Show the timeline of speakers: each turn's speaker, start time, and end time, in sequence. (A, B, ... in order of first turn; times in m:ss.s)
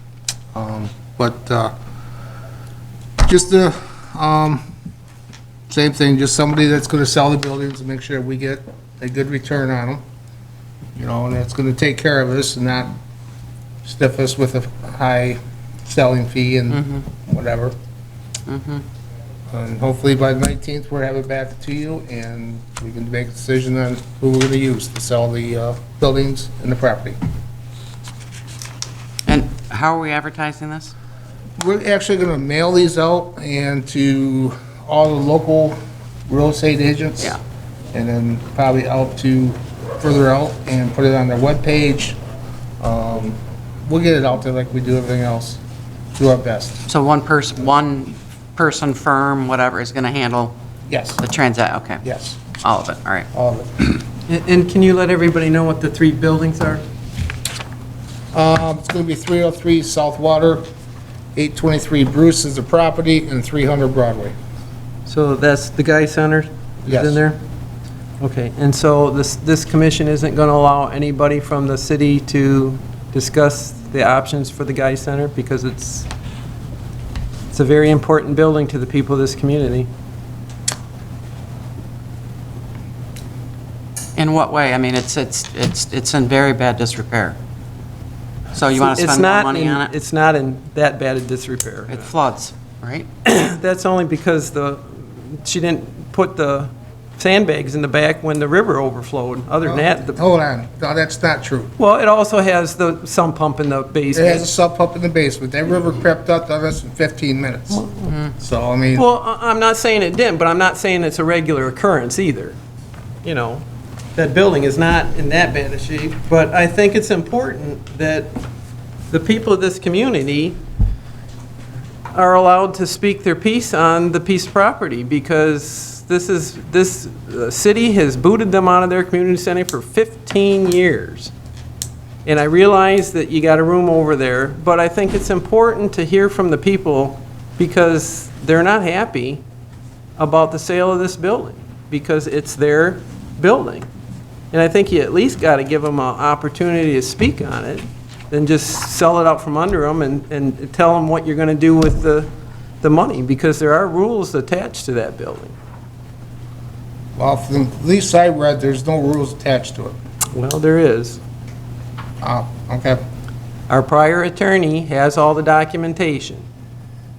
0:00.5-0:01.7 A
0:03.2-0:04.6 A
0:05.7-0:10.0 A
0:11.0-0:12.9 A
0:13.8-0:17.7 A
0:16.7-0:17.0 B
0:18.5-0:18.8 B
0:19.5-0:27.2 A
0:29.3-0:30.9 B
0:31.6-0:37.4 A
0:37.9-0:42.2 A
0:42.8-0:45.6 A
0:46.2-0:46.8 A
0:46.9-0:50.6 B
0:50.9-0:51.2 A
0:51.2-0:52.0 B
0:52.0-0:52.4 A
0:52.6-0:53.3 B
0:53.3-0:53.7 A
0:54.3-0:56.8 C
0:58.3-1:00.7 A
1:01.4-1:04.4 A
1:05.1-1:07.4 C
1:06.9-1:07.2 A
1:08.2-1:16.1 C
1:17.5-1:19.9 C
1:24.2-1:27.4 B
1:28.5-1:29.9 B
1:28.7-1:32.1 C
1:31.9-1:33.1 B
1:33.2-1:40.2 C
1:39.6-1:41.7 A
1:41.8-1:44.5 C
1:44.1-1:47.9 A
1:48.1-1:48.3 B
1:48.4-1:49.1 A
1:49.0-1:52.6 C
1:53.2-1:53.6 C
1:54.2-1:58.3 C
1:59.1-2:00.6 C
2:02.1-2:11.3 C
2:12.2-2:19.4 C
2:20.2-2:23.9 C
2:24.5-2:32.3 C
2:32.8-2:35.6 C
2:37.2-2:40.0 A
2:40.3-2:41.2 C
2:42.2-2:43.0 A
2:43.7-2:46.5 C